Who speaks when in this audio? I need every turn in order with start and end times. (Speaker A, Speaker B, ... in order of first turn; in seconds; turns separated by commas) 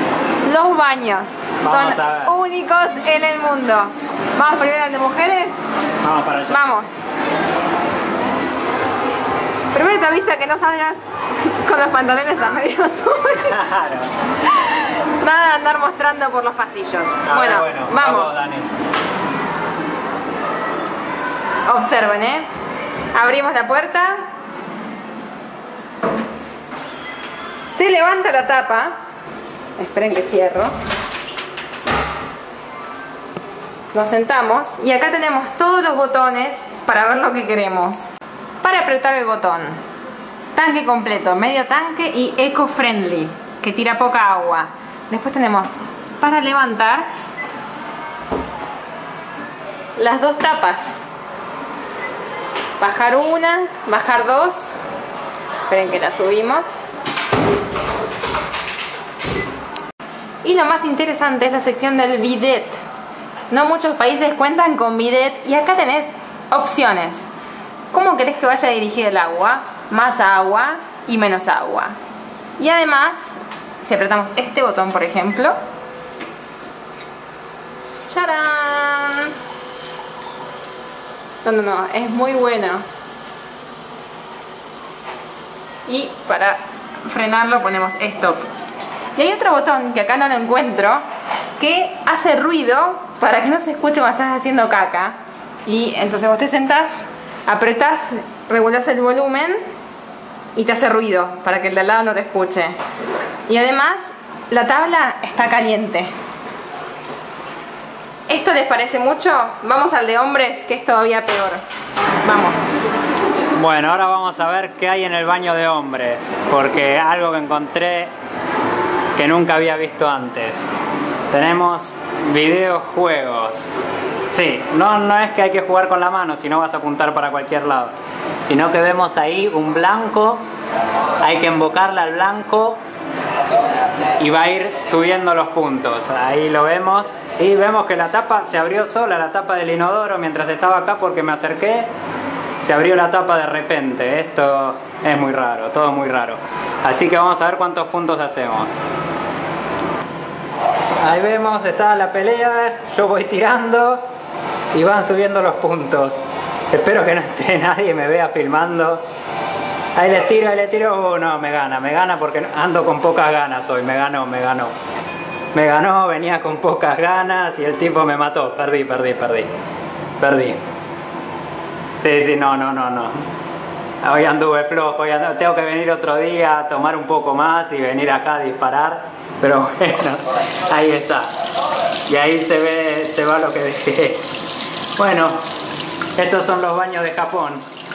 Speaker A: 0.4-5.6, Speaker B: 1.6-2.4, Speaker B: 6.0-6.6, Speaker A: 6.5-6.9, Speaker A: 9.7-13.6, Speaker B: 13.5-14.1, Speaker A: 14.4-18.4, Speaker B: 17.3-18.7, Speaker A: 21.7-22.5, Speaker A: 23.1-24.3, Speaker A: 27.7-29.0, Speaker A: 29.8-30.7, Speaker A: 33.9-38.1, Speaker A: 38.6-39.8, Speaker A: 40.5-47.1, Speaker A: 50.0-51.0, Speaker A: 52.8-54.8, Speaker A: 55.7-56.9, Speaker A: 60.4-62.8, Speaker A: 63.5-67.3, Speaker A: 67.9-72.0, Speaker A: 72.6-75.6, Speaker A: 78.1-79.3, Speaker A: 81.4-82.8, Speaker A: 85.9-88.5, Speaker A: 89.2-91.0, Speaker A: 91.6-99.6, Speaker A: 100.5-102.8, Speaker A: 103.5-106.1, Speaker A: 108.3-111.6, Speaker A: 112.2-112.8, Speaker B: 113.5-118.1, Speaker B: 119.2-120.7, Speaker B: 121.3-123.7, Speaker B: 124.3-127.9, Speaker B: 128.4-130.4, Speaker B: 131.2-132.8, Speaker B: 134.2-141.9, Speaker B: 142.6-148.7, Speaker B: 151.0-154.1, Speaker B: 154.7-156.2, Speaker B: 156.7-159.0, Speaker B: 160.0-164.7, Speaker B: 165.5-169.5, Speaker B: 170.2-170.6, Speaker B: 172.0-173.1, Speaker B: 174.0-181.3, Speaker B: 182.1-184.3, Speaker B: 185.0-185.4, Speaker B: 186.2-187.6